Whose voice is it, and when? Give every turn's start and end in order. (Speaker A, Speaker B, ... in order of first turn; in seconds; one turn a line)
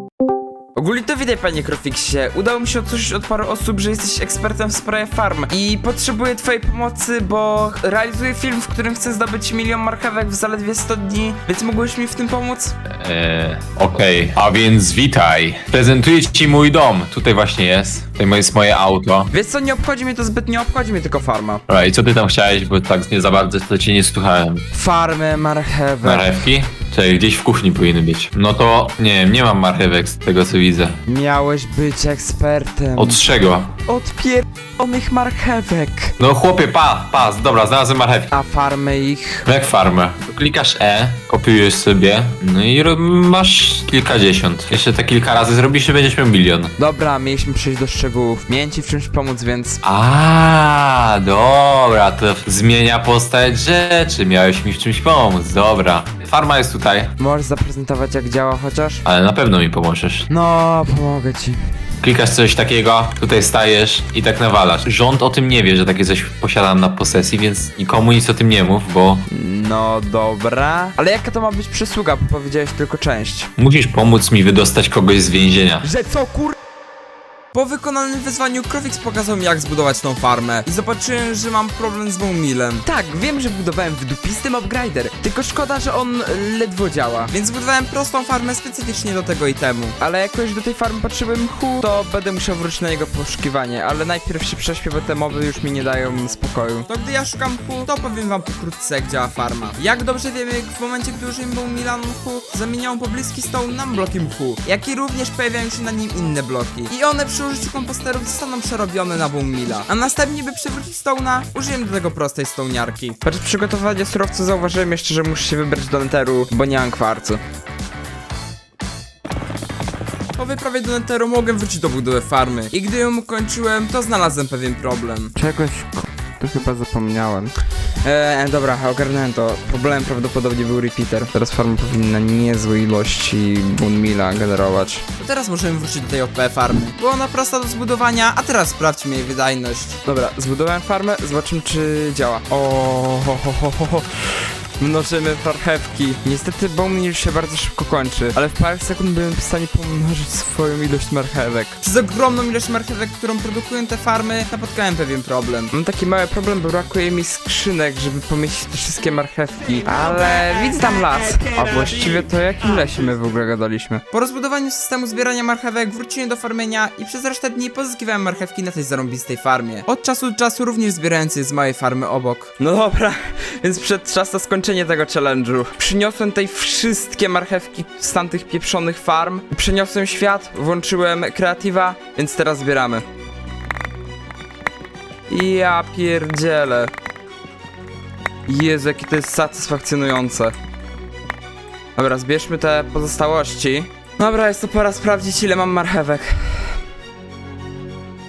Speaker A: 0.8-12.8
Speaker B: 12.9-19.3
Speaker A: 19.3-21.6
Speaker B: 21.7-24.7
Speaker A: 24.7-26.3
Speaker B: 26.0-31.0
Speaker A: 31.1-33.2
Speaker B: 33.0-33.7
Speaker A: 33.9-36.1
Speaker B: 36.2-38.3
Speaker A: 38.3-39.5
Speaker B: 39.5-46.7
Speaker A: 46.8-49.8
Speaker B: 49.8-57.1
Speaker A: 57.2-59.0
Speaker B: 59.0-60.3
Speaker A: 60.3-61.6
Speaker B: 62.0-69.2
Speaker A: 69.3-73.5
Speaker C: 71.0-72.2
Speaker B: 73.6-75.9
Speaker A: 76.0-76.2
Speaker C: 76.0-76.5
Speaker C: 77.5-82.9
Speaker A: 82.9-87.2
Speaker C: 87.2-90.0
Speaker A: 90.0-96.8
Speaker C: 96.9-113.2
Speaker A: 113.2-117.4
Speaker C: 120.4-125.3
Speaker A: 125.4-135.1
Speaker C: 135.1-140.0
Speaker A: 140.1-151.8
Speaker C: 151.8-155.7
Speaker A: 155.7-164.1
Speaker C: 164.1-172.6
Speaker A: 172.6-183.0
Speaker A: 185.3-186.9
Speaker A: 188.5-190.5
Speaker A: 192.0-196.8